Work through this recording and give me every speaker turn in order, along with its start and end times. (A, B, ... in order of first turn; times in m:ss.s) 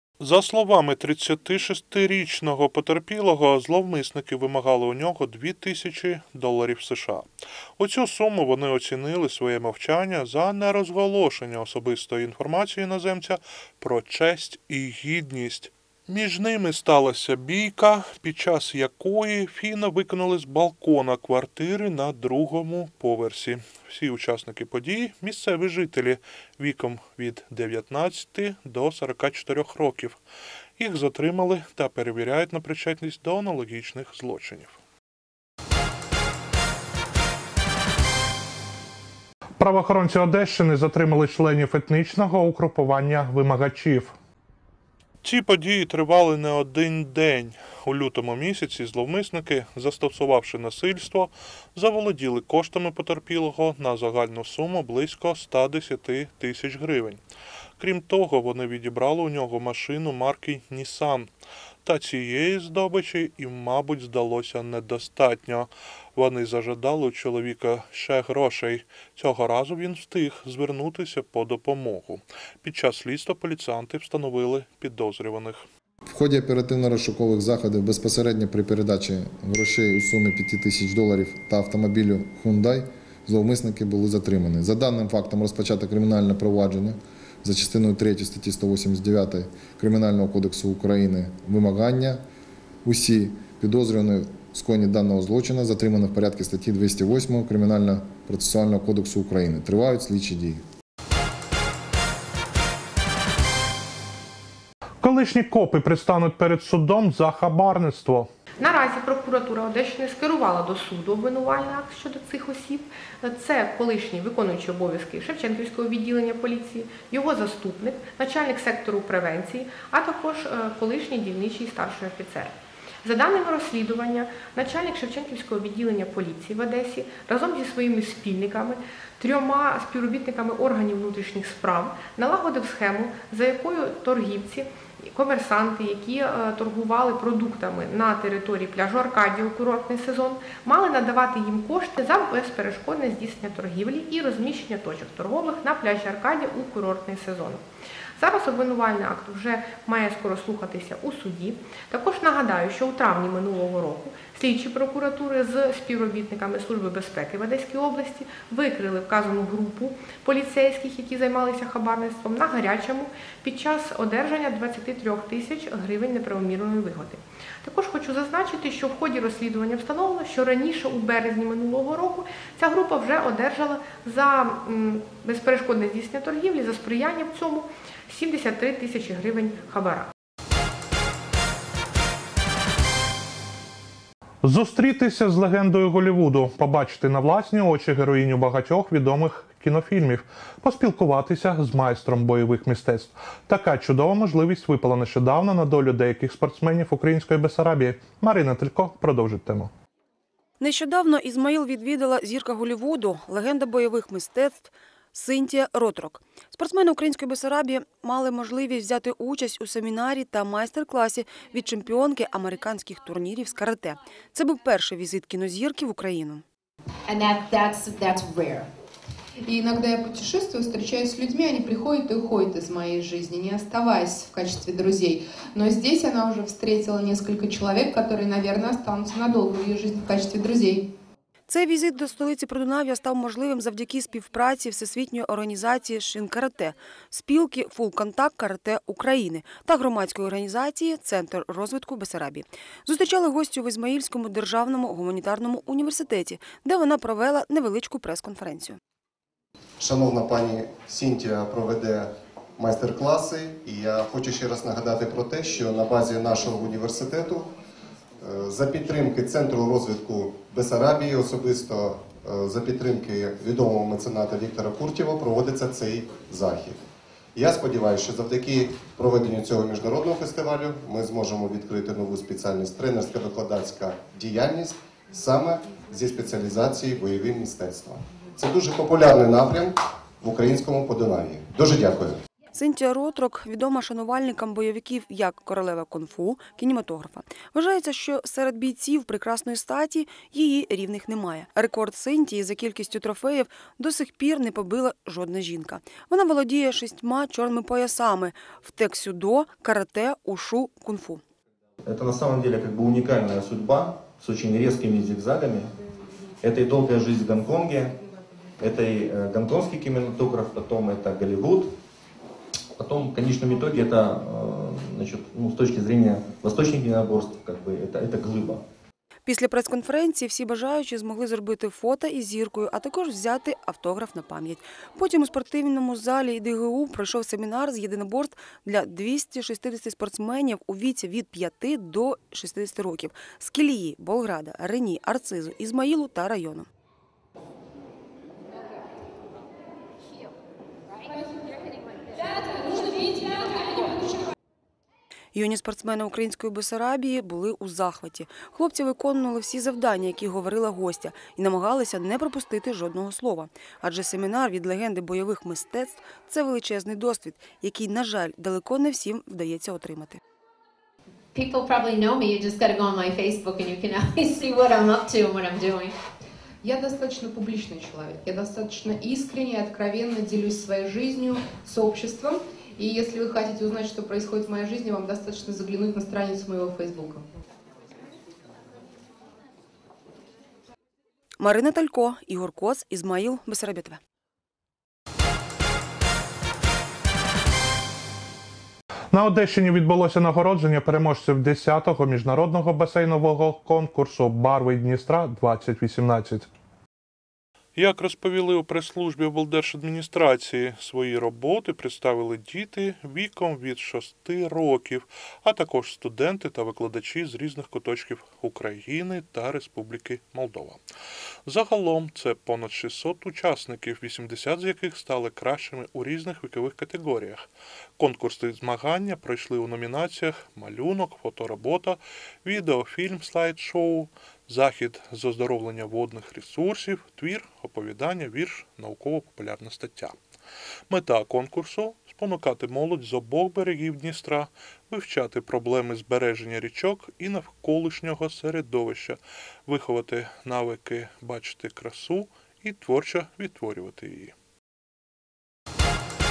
0:00.2-0:30.2 A
0:30.8-0:34.8 A
0:39.6-0:44.2 A
0:45.2-0:57.2 A
0:57.8-1:01.3 A
1:01.8-1:15.6 A
1:16.0-1:32.2 B
1:32.8-1:40.6 B
1:45.0-1:48.3 A
1:48.6-3:00.1 C
3:04.4-3:19.7 A
3:20.6-3:36.4 D
3:37.1-3:38.7 E
3:39.4-3:50.9 F
3:51.5-4:08.8 D
4:09.8-4:17.5 G
4:18.2-4:42.2 G
4:42.5-5:01.2 D
5:01.8-5:05.7 H
5:06.4-5:08.0 H
5:08.6-5:11.7 H
5:12.8-5:18.6 H
5:19.2-5:36.6 D
5:45.3-6:00.2 D
6:01.3-6:05.9 E
6:06.6-6:17.2 F
6:21.4-6:24.0 D
6:29.1-6:36.5 A
6:37.7-6:50.8 A
6:51.4-7:10.2 A
7:10.9-7:24.3 A